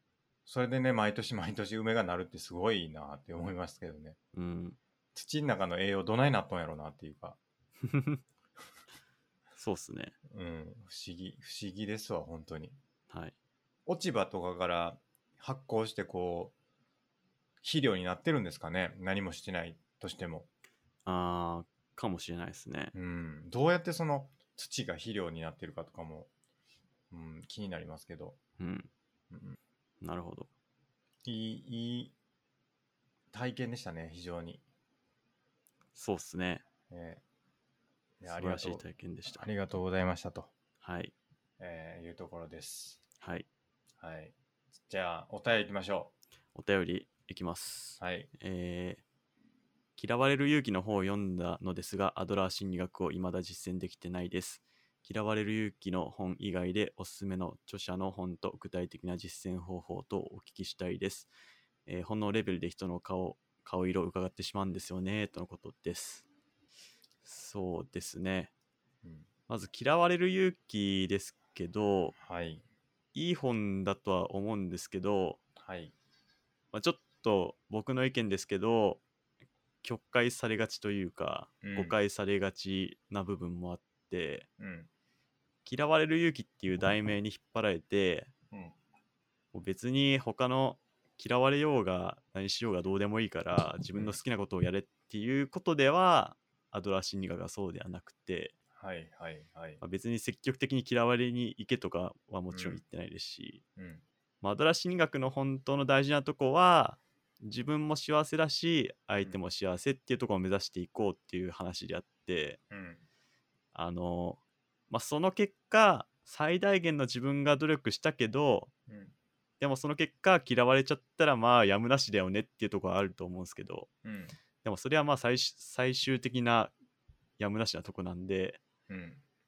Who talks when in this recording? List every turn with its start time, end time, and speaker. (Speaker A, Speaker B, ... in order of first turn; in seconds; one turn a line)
Speaker A: 0.5-4.2
Speaker B: 4.3-4.8
Speaker A: 5.1-7.4
Speaker B: 7.8-8.2
Speaker B: 9.6-10.1
Speaker A: 10.3-12.8
Speaker A: 13.8-16.5
Speaker A: 17.6-20.5
Speaker B: 21.1-22.9
Speaker A: 22.9-26.3
Speaker A: 27.1-28.4
Speaker B: 28.6-28.9
Speaker A: 29.3-29.6
Speaker B: 30.0-30.5
Speaker A: 31.2-32.1
Speaker A: 33.3-34.6
Speaker B: 35.9-36.6
Speaker A: 36.9-37.2
Speaker A: 38.2-40.5
Speaker B: 38.3-39.5
Speaker B: 40.8-41.1
Speaker A: 41.6-43.0
Speaker B: 43.2-43.5
Speaker A: 44.0-46.1
Speaker B: 46.5-49.0
Speaker A: 48.0-48.3
Speaker B: 50.0-61.3
Speaker B: 61.9-66.2
Speaker B: 67.2-68.5
Speaker B: 69.5-72.1
Speaker A: 72.2-72.6
Speaker B: 73.1-75.4
Speaker A: 75.6-75.9
Speaker B: 76.7-79.0
Speaker B: 79.8-84.5
Speaker A: 81.6-82.0
Speaker A: 84.6-84.9
Speaker B: 85.6-88.3
Speaker B: 89.5-98.5
Speaker A: 98.8-99.8
Speaker B: 99.8-103.6
Speaker A: 102.5-102.8
Speaker A: 103.8-104.0
Speaker B: 104.4-112.6
Speaker A: 112.7-113.0
Speaker B: 113.7-118.7
Speaker A: 118.9-119.1
Speaker B: 119.6-123.9
Speaker A: 124.0-124.3
Speaker B: 124.6-126.7
Speaker B: 127.4-128.6
Speaker A: 128.9-129.2